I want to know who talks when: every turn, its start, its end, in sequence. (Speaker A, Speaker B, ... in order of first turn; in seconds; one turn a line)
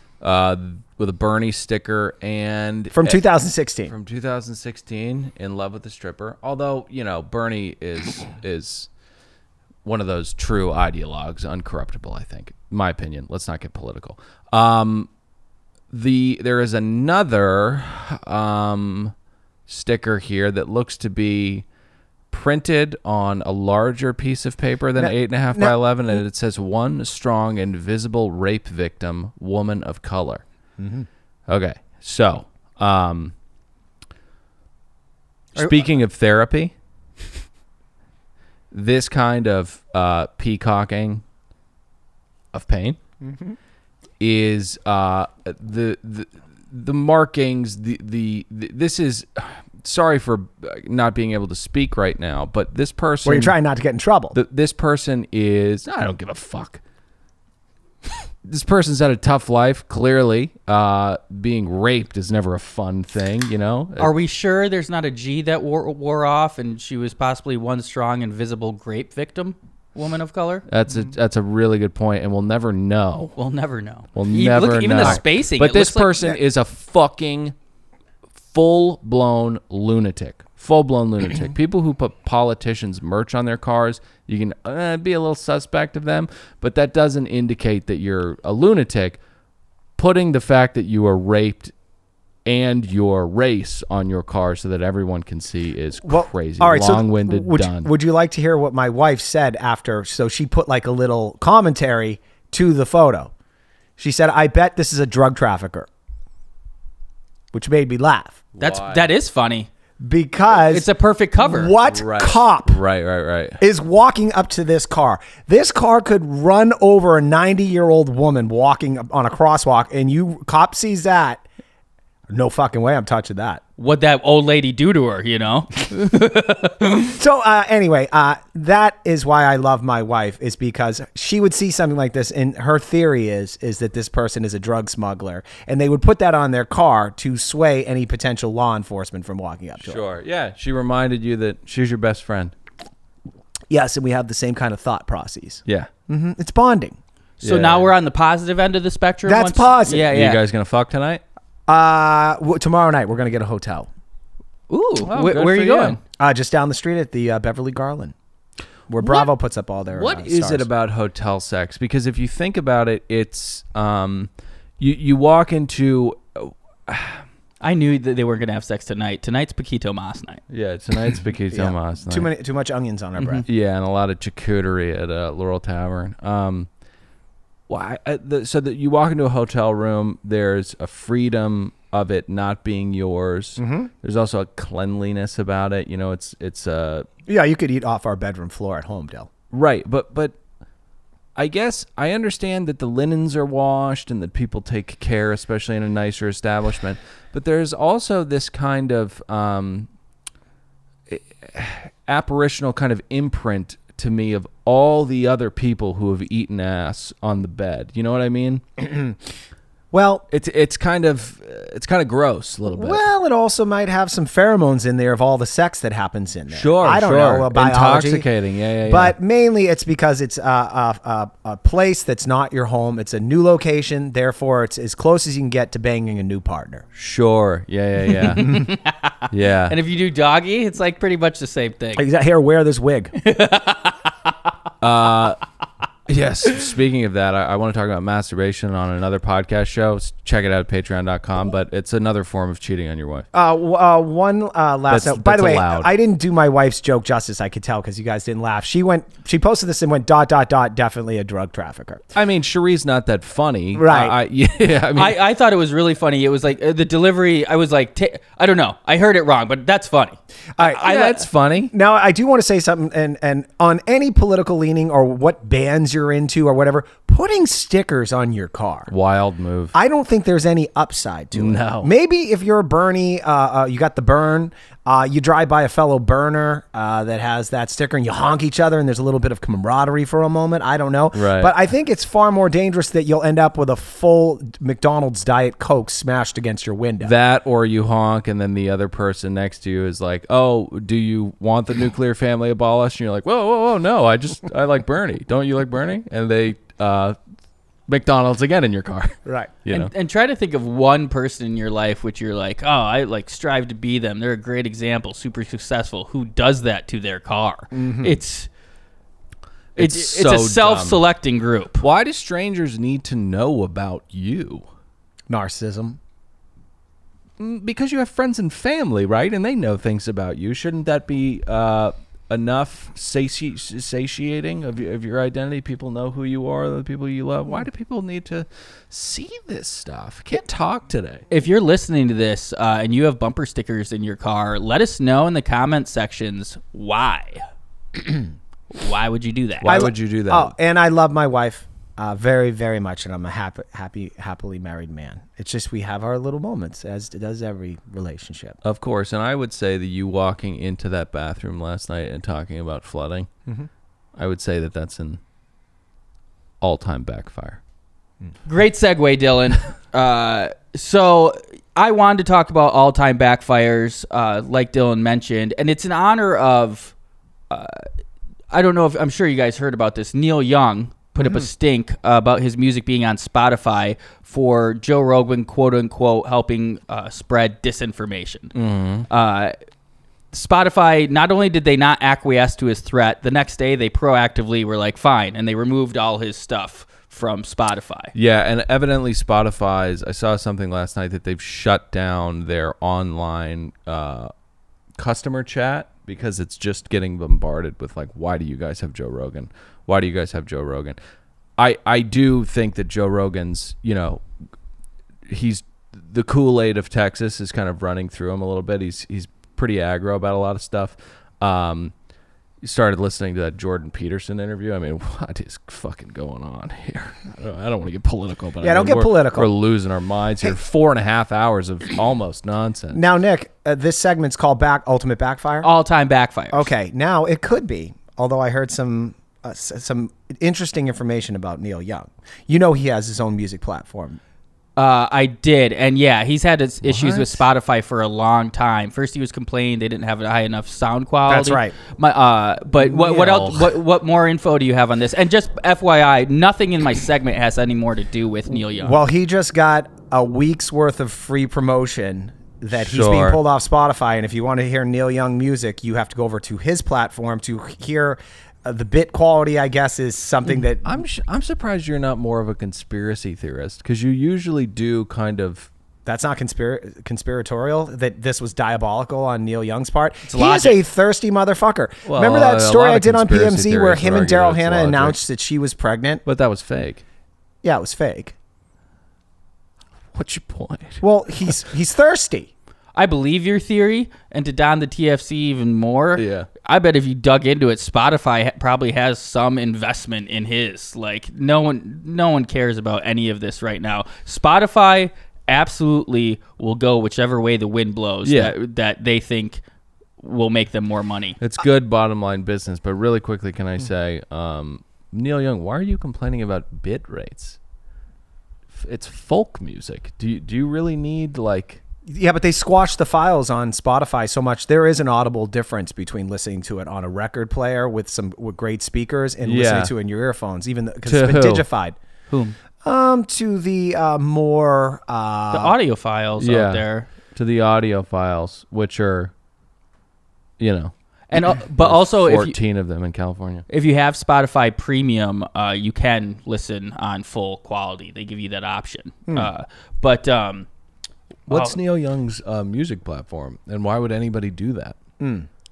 Speaker A: 0.2-3.2
Speaker B: 2.9-3.9
Speaker A: 3.9-8.9
Speaker A: 9.8-15.1
Speaker A: 15.9-19.1
Speaker A: 19.7-21.6
Speaker A: 22.3-30.4
Speaker B: 25.0-25.8
Speaker B: 30.8-31.1
Speaker A: 31.5-33.3
Speaker A: 35.6-36.7
Speaker A: 38.7-41.2
Speaker A: 42.5-43.0
Speaker B: 43.2-43.6
Speaker A: 44.2-53.6
Speaker B: 53.2-54.4
Speaker A: 54.3-56.8
Speaker A: 58.5-64.1
Speaker C: 64.0-70.6
Speaker A: 70.7-73.3
Speaker C: 73.4-76.3
Speaker A: 74.2-77.5
Speaker A: 78.5-89.2
Speaker A: 90.0-91.7
Speaker A: 92.5-97.9
Speaker B: 96.0-103.3
Speaker B: 104.0-105.9
Speaker B: 107.5-108.4
Speaker A: 108.6-109.1
Speaker C: 108.6-109.7
Speaker B: 110.0-110.9
Speaker C: 110.5-111.8
Speaker B: 111.4-112.8
Speaker A: 111.8-113.6
Speaker B: 113.6-121.4
Speaker B: 122.3-123.6
Speaker C: 123.8-127.1
Speaker B: 127.0-140.0
Speaker A: 139.8-142.5
Speaker B: 143.7-147.0
Speaker C: 147.4-150.4
Speaker A: 147.4-147.9
Speaker B: 149.3-150.1
Speaker A: 150.1-151.2
Speaker B: 151.7-153.9
Speaker C: 154.7-156.0
Speaker A: 155.0-156.0
Speaker B: 156.2-158.1
Speaker B: 158.9-160.7
Speaker A: 159.0-159.3
Speaker A: 159.9-167.2
Speaker C: 167.6-170.4
Speaker A: 170.5-172.3
Speaker B: 171.5-173.4
Speaker C: 173.2-173.4
Speaker A: 173.5-176.7
Speaker A: 177.7-187.1
Speaker B: 183.6-183.9
Speaker B: 187.3-189.3
Speaker A: 189.5-190.3
Speaker A: 191.4-199.9
Speaker A: 201.1-208.6
Speaker B: 208.8-209.2
Speaker B: 209.9-210.2
Speaker A: 210.3-213.1
Speaker B: 212.7-218.3
Speaker A: 216.5-219.2
Speaker B: 218.9-226.8
Speaker A: 226.9-228.7
Speaker C: 228.2-232.1
Speaker A: 229.3-229.8
Speaker B: 232.0-233.1
Speaker C: 233.2-234.1
Speaker A: 234.8-235.4
Speaker A: 236.1-243.3
Speaker B: 243.3-252.0
Speaker A: 244.9-245.9
Speaker A: 252.1-255.2
Speaker B: 253.7-254.2
Speaker C: 254.9-260.2
Speaker B: 260.6-260.9
Speaker A: 260.6-261.7
Speaker C: 260.8-261.2
Speaker B: 261.7-268.9
Speaker A: 268.9-269.7
Speaker B: 269.7-287.1
Speaker A: 271.3-271.9
Speaker A: 281.1-281.5
Speaker A: 287.0-297.2
Speaker A: 297.9-299.9
Speaker B: 299.3-299.5
Speaker C: 299.7-308.5
Speaker B: 307.7-308.2
Speaker A: 309.8-311.0
Speaker C: 309.8-311.8
Speaker A: 311.8-314.6
Speaker B: 315.3-316.0
Speaker A: 317.4-331.2
Speaker C: 331.3-337.4
Speaker C: 338.7-339.7
Speaker A: 339.6-340.5
Speaker B: 339.6-348.6
Speaker A: 348.6-353.3
Speaker A: 354.2-355.2
Speaker A: 356.6-357.6
Speaker C: 358.5-366.9
Speaker C: 367.5-367.9
Speaker C: 368.5-378.6
Speaker A: 378.6-379.1
Speaker C: 379.1-379.6
Speaker C: 380.3-388.1
Speaker A: 388.1-394.3
Speaker A: 395.0-401.0
Speaker A: 401.6-404.2
Speaker A: 405.3-411.9
Speaker A: 412.6-423.0
Speaker B: 418.6-419.5
Speaker B: 422.9-425.7
Speaker C: 425.6-426.7
Speaker B: 426.5-434.2
Speaker C: 434.8-449.0
Speaker A: 436.8-437.4
Speaker B: 441.3-441.8
Speaker A: 443.0-443.7
Speaker B: 448.8-461.0
Speaker A: 452.8-453.4
Speaker A: 460.8-465.7
Speaker B: 466.1-476.2
Speaker C: 470.3-470.8
Speaker A: 472.1-475.2
Speaker A: 476.2-477.0
Speaker B: 477.6-478.4
Speaker A: 480.1-481.5
Speaker B: 481.0-482.5
Speaker C: 482.9-499.6
Speaker A: 486.2-486.5
Speaker A: 498.2-498.5
Speaker C: 500.2-501.4
Speaker A: 501.4-507.6
Speaker A: 508.7-511.8
Speaker B: 512.1-522.0
Speaker A: 519.4-519.9
Speaker A: 521.1-521.6
Speaker C: 522.3-522.6
Speaker B: 522.8-525.8
Speaker C: 525.5-527.1
Speaker A: 526.4-529.3
Speaker A: 530.6-533.7
Speaker C: 531.3-532.5
Speaker C: 533.7-540.7
Speaker A: 541.5-545.0
Speaker C: 541.5-541.8
Speaker B: 545.2-545.5